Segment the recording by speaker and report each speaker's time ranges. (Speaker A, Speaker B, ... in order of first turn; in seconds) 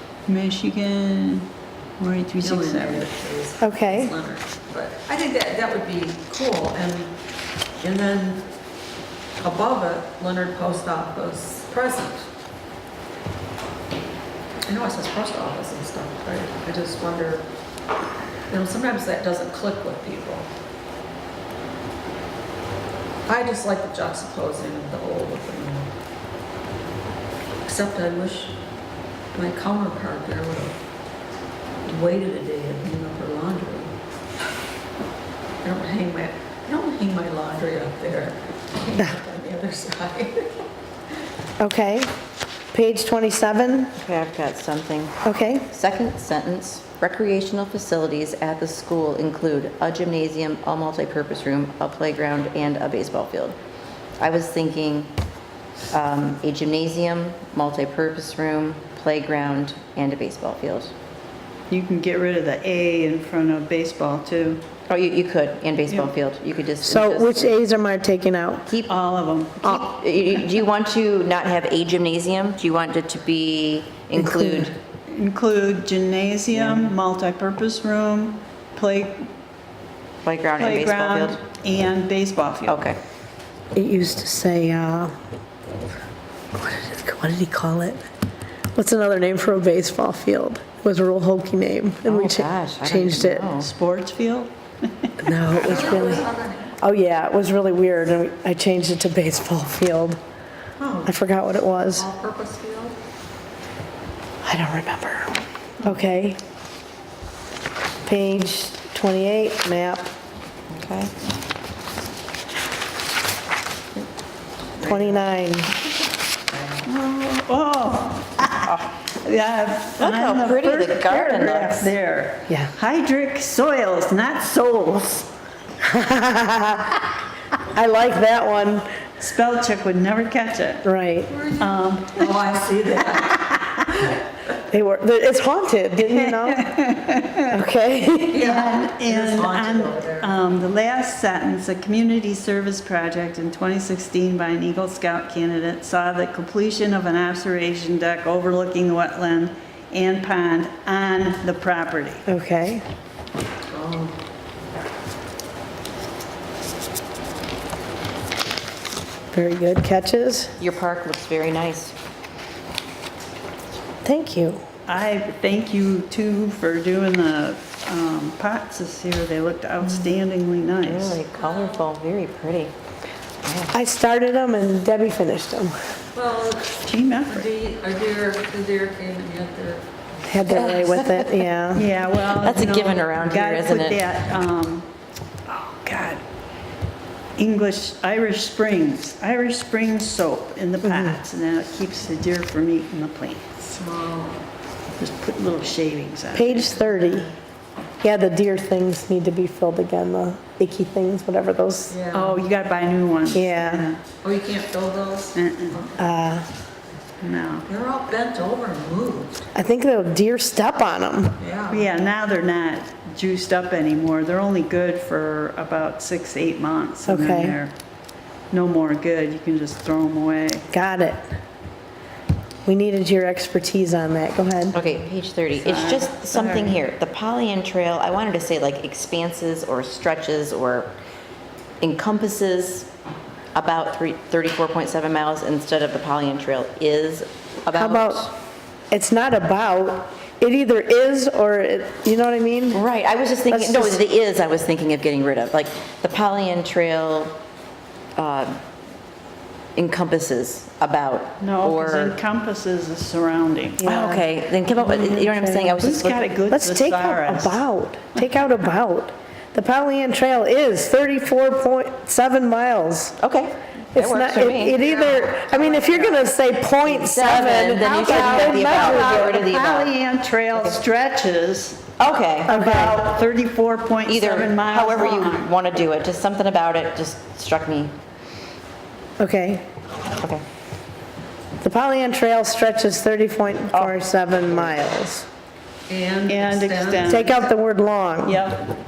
Speaker A: 0.3-1.5, 2.0-3.1, 61.7-64.6, 68.9-69.8, 75.1-79.3, 80.5-82.9, 93.6-94.5, 116.8-125.3, 129.2-130.8, 131.6-132.3, 133.2-133.7, 136.0-137.5, 138.4-152.2, 164.9-171.2, 176.8-177.5, 181.8-184.9, 185.5-186.2, 187.4-193.6, 195.0-196.9, 202.1-204.0, 205.3-205.8, 207.2-207.7, 211.7-217.7, 218.5-220.7, 225.6-226.8, 251.4-253.8, 254.8-257.6, 265.1-266.0, 267.7-271.8, 272.5-275.5, 286.3-287.4, 288.2-288.6
Speaker B: 2.4-7.1, 7.8-8.5, 9.4-12.3, 14.7-17.5, 18.5-20.5, 23.3-25.9, 27.6-28.6, 29.3-30.8, 31.9-33.9, 35.6-40.7, 95.5-96.7, 100.8-101.1, 102.0-103.0, 131.3-134.2, 138.3-140.3, 153.7-154.2, 171.3-171.9, 176.1-179.8, 193.7-194.4, 201.9-202.4, 204.2-206.0, 207.7-209.4, 211.4-211.9, 285.9-287.3
Speaker C: 3.6-4.1, 41.6-42.1, 42.7-44.0, 45.2-45.7, 66.8-68.7, 74.2-74.7, 83.7-85.2, 86.5-88.0, 88.8-93.5, 95.2-96.3, 96.8-100.2, 101.0-102.1, 104.4-106.4, 108.0-110.1, 114.8-115.7, 125.8-127.0, 127.7-128.9, 130.8-131.3, 134.7-136.8, 137.5-138.5, 152.3-152.8, 159.3-160.5, 164.1-164.6, 173.7-175.8, 180.3-181.9, 190.8-191.2, 196.3-197.3, 198.0-202.0, 203.3-203.9, 206.0-206.5, 209.6-211.4, 217.1-217.6, 220.7-221.3, 222.7-224.8, 237.7-238.3, 238.9-242.8, 243.5-244.0, 253.8-254.3, 255.1-255.7, 256.5-263.2, 263.9-269.4, 272.5-273.1, 279.2-279.6, 281.6-285.3, 287.0-288.4
Speaker D: 44.0-53.6, 54.2-55.1, 55.9-60.9, 64.9-67.6, 69.6-74.8, 76.5-76.9, 80.2-81.4, 82.7-83.0, 92.1-93.7, 110.7-111.1, 114.8-115.2, 118.6-119.0, 120.0-121.9, 160.6-161.9, 169.8-170.1, 170.8-172.7, 173.4-173.8, 180.6-181.3, 182.2-184.0, 224.7-230.9, 231.8-232.9, 233.5-238.3, 242.7-247.4, 248.2-248.6, 249.8-252.2, 253.8-256.3, 263.2-264.9, 266.8-269.9, 272.0-272.6, 274.1-277.9, 283.7-284.0